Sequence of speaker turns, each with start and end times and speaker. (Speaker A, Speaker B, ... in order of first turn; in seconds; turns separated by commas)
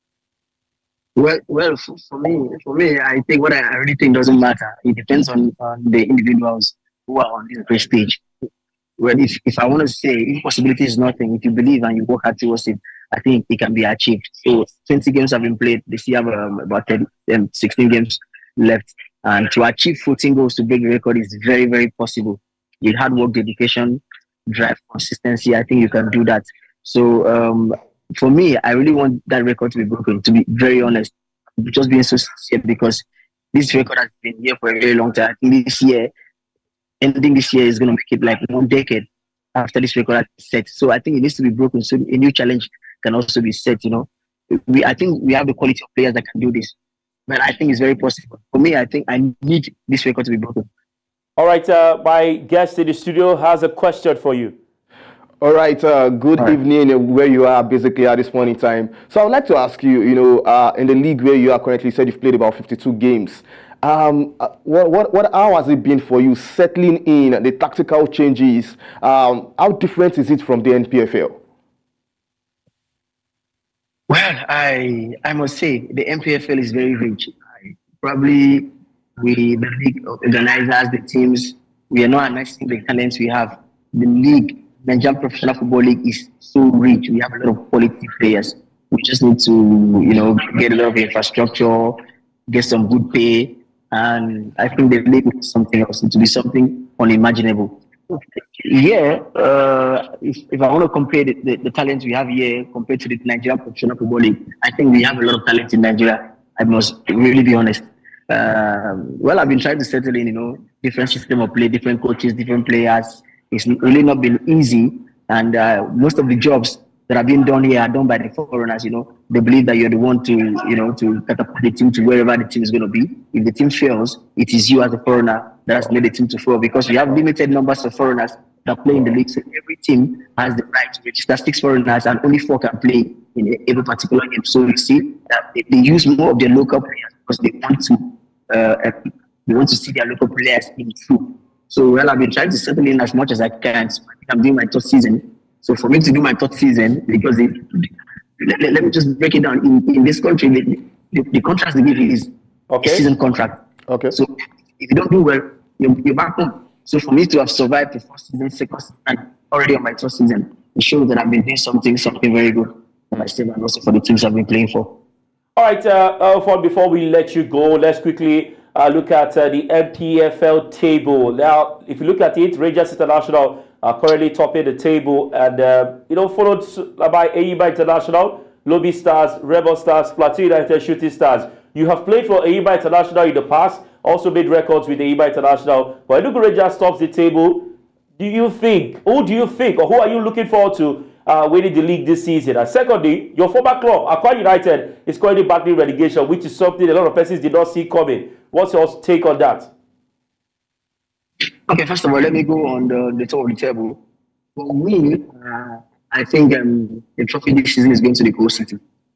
Speaker A: 1.1-8.2, Speaker A: 9.0-36.1, Speaker A: 37.0-46.7, Speaker A: 47.3-50.7, Speaker B: 51.4-54.5, Speaker C: 55.4-71.4, Speaker A: 74.1-77.4, Speaker A: 78.0-152.3, Speaker B: 152.7-153.0, Speaker A: 152.8-153.6, Speaker C: 153.9-154.1, Speaker A: 154.1-164.9, Speaker B: 165.6-199.7, Speaker A: 201.7-204.0, Speaker A: 204.6-208.8